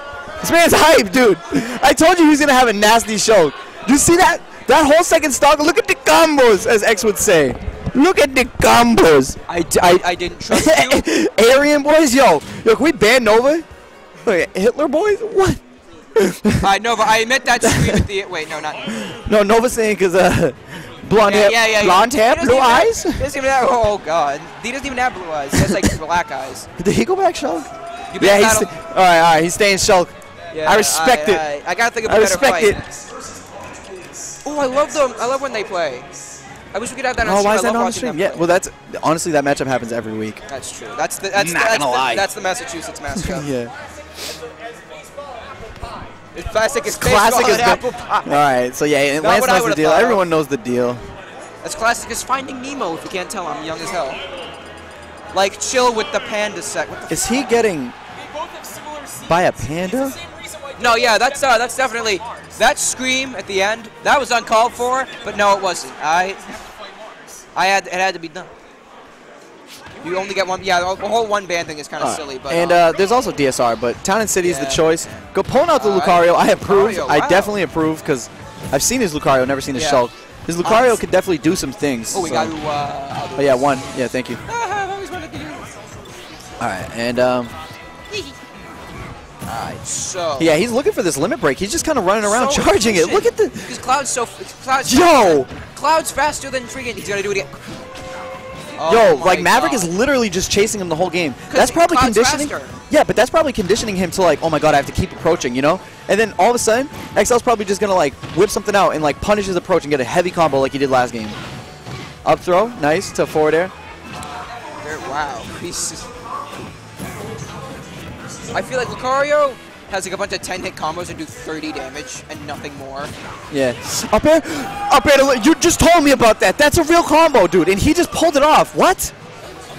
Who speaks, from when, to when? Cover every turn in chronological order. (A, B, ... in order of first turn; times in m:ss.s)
0:00.4-0:09.4 A
0:09.5-0:11.0 B
0:10.5-0:13.7 A
0:14.2-0:15.6 A
0:16.2-0:16.7 A
0:16.6-0:19.0 B
0:17.6-0:18.0 A
0:18.9-0:23.2 A
0:21.2-0:26.7 B
0:26.8-0:30.1 A
0:28.1-0:28.7 B
0:30.5-0:32.8 B
0:30.6-0:31.4 A
0:32.0-0:32.8 A
0:34.4-0:36.1 B
0:36.7-0:38.5 B
0:37.2-0:40.4 A
0:40.5-0:43.5 B
0:41.4-0:42.2 A
0:43.1-0:43.7 A
0:46.3-0:48.4 B
0:46.9-0:51.0 A
0:49.2-0:50.2 B
0:51.6-0:54.2 B
0:55.3-0:57.4 B
0:57.1-0:58.0 A
0:59.3-1:00.2 A
1:00.8-1:06.4 B
1:07.5-1:08.5 B
1:10.0-1:12.8 B
1:12.0-1:22.6 A
1:14.4-1:15.0 B
1:15.8-1:17.6 B
1:19.7-1:20.0 B
1:20.6-1:21.0 B
1:22.1-1:23.8 B
1:23.4-1:24.4 A
1:24.5-1:25.7 B
1:26.6-1:27.5 A
1:29.5-1:30.6 B
1:30.4-1:33.7 A
1:32.2-1:37.6 B
1:34.8-1:35.5 A
1:38.8-1:39.9 B
1:38.9-1:51.4 A
1:41.5-1:42.8 B
1:52.2-1:53.7 A
1:54.8-1:56.1 B
1:58.5-2:03.1 B
2:03.5-2:09.1 A